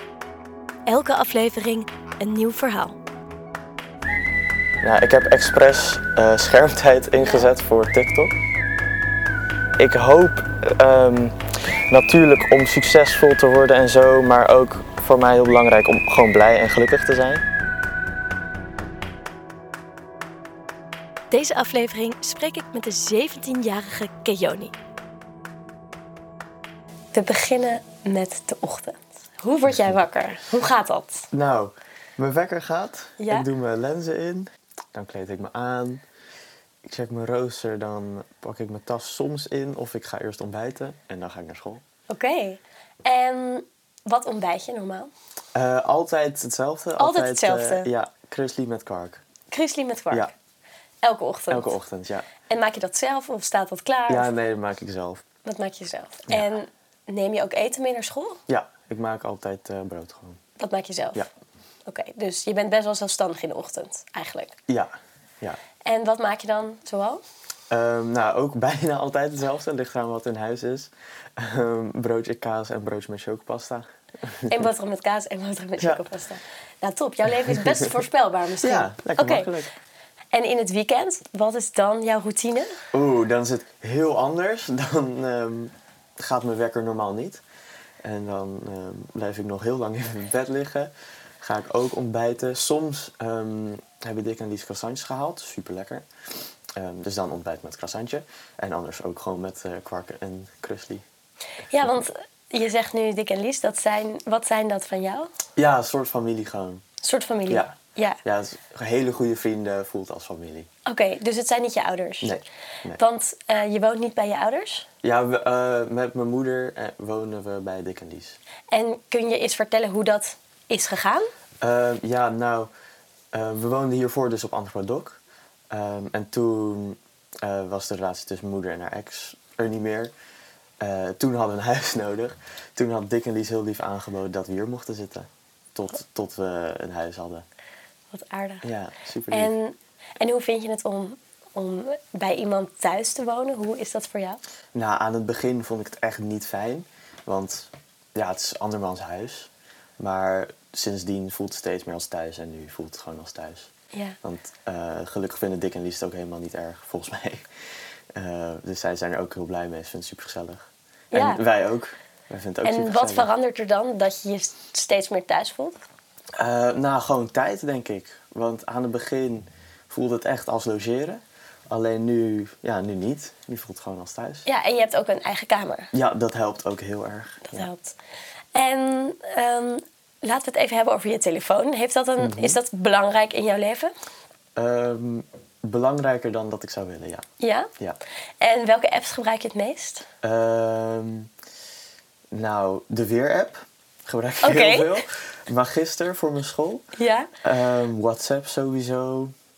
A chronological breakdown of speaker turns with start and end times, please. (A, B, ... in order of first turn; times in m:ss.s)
0:00.9-0:03.0 A
0:04.8-0:08.3 B
0:07.2-0:07.5 A
0:09.8-0:17.4 B
0:21.3-0:24.7 A
0:27.1-0:31.3 A
0:31.3-0:36.0 B
0:33.2-0:33.5 A
0:36.8-0:41.8 B
0:42.1-0:45.1 A
0:45.5-0:49.2 B
0:47.0-0:47.9 A
0:49.5-0:50.3 A
0:51.0-0:51.7 A
0:51.5-0:52.3 B
0:52.5-0:54.3 A
0:54.1-0:55.2 B
0:55.4-0:58.4 A
0:58.5-1:00.4 B
1:00.6-1:01.3 A
1:01.8-1:04.5 A
1:04.7-1:05.6 B
1:05.8-1:07.2 A
1:07.7-1:14.7 B
1:14.5-1:19.5 A
1:17.3-1:18.0 B
1:18.6-1:19.7 B
1:20.3-1:22.8 A
1:22.9-1:27.4 B
1:28.0-1:36.1 B
1:36.7-1:41.0 B
1:41.7-1:45.3 A
1:41.7-1:42.0 B
1:45.6-1:46.8 B
1:47.0-1:48.2 A
1:47.5-1:50.7 B
1:50.8-1:52.4 A
1:52.2-1:53.0 B
1:53.0-1:54.9 A
1:55.0-1:58.4 B
1:58.7-2:01.3 A
2:01.6-2:02.7 B
2:03.3-2:05.2 B
2:05.7-2:10.1 B
2:10.8-2:17.4 B
2:18.1-2:18.6 A
2:18.6-2:19.5 B
2:19.3-2:24.4 A
2:24.7-2:33.7 B
2:34.2-2:37.4 B
2:38.1-2:43.3 B
2:41.1-2:41.4 A
2:42.6-2:45.8 A
2:46.4-2:54.4 B
2:54.4-2:55.9 A
2:55.9-2:57.7 B
2:57.5-2:58.0 A
2:58.5-3:03.9 A
3:02.2-3:02.6 B
3:04.5-3:07.3 B
3:07.4-3:07.7 A
3:08.4-3:10.1 A
3:10.2-3:11.3 B
3:12.3-3:16.8 B
3:14.4-3:15.0 A
3:17.0-3:17.3 A
3:17.4-3:19.3 B